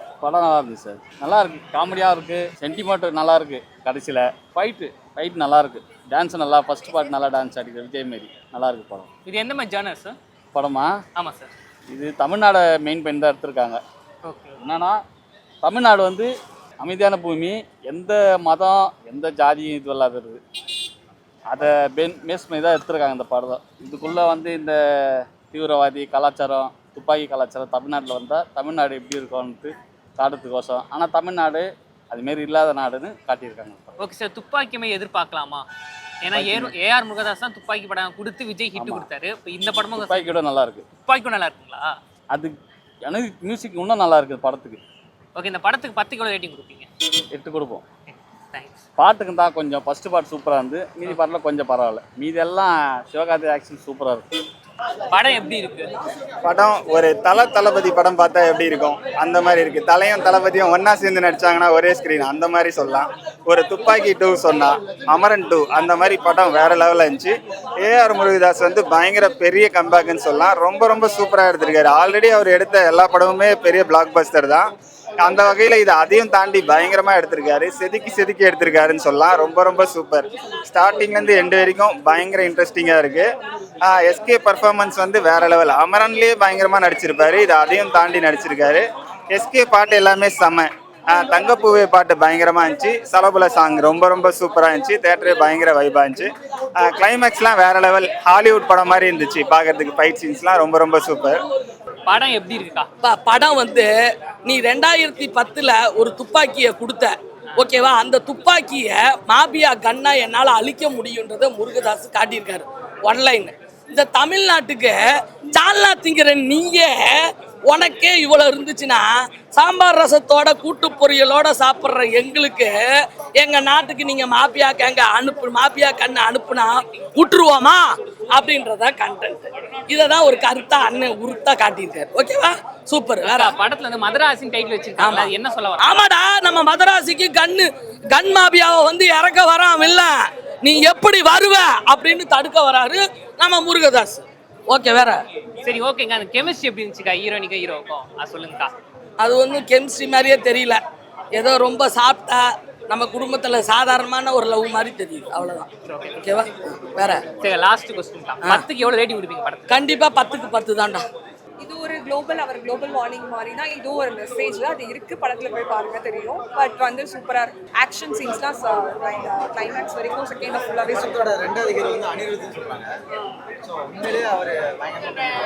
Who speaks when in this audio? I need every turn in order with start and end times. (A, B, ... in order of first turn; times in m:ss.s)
0:00.2-0:09.1 A
0:09.3-0:10.2 B
0:10.5-0:10.9 A
0:11.2-0:11.5 B
0:11.9-0:13.8 A
0:14.3-0:14.6 B
0:14.6-0:15.0 A
0:15.6-0:16.3 A
0:16.8-0:20.4 A
0:21.5-0:24.8 A
0:25.3-0:34.0 A
0:34.0-0:35.7 B
0:36.2-0:40.4 B
0:36.3-0:36.7 A
0:38.8-0:39.1 A
0:40.0-0:40.8 A
0:41.0-0:42.0 B
0:43.1-0:44.8 A
0:45.4-0:46.9 B
0:47.3-0:47.8 A
0:48.1-0:48.8 B
0:49.0-0:54.2 A
0:55.1-0:55.9 B
0:56.5-1:23.3 C
1:23.8-1:41.4 C
1:42.1-1:42.9 B
1:43.0-1:43.9 D
1:44.4-1:55.0 D
1:55.5-2:02.8 D
2:03.4-2:13.5 D
2:13.2-2:16.1 B
2:15.0-2:15.3 D
2:15.8-2:25.2 D
2:25.6-2:28.7 B
2:29.2-2:30.8 D
2:31.3-2:35.7 D
2:35.9-2:36.3 B
2:36.2-2:37.2 D
2:37.4-2:39.7 B
2:39.7-2:41.0 D
2:41.6-2:51.3 E
2:50.8-2:52.9 F
2:53.6-2:55.3 F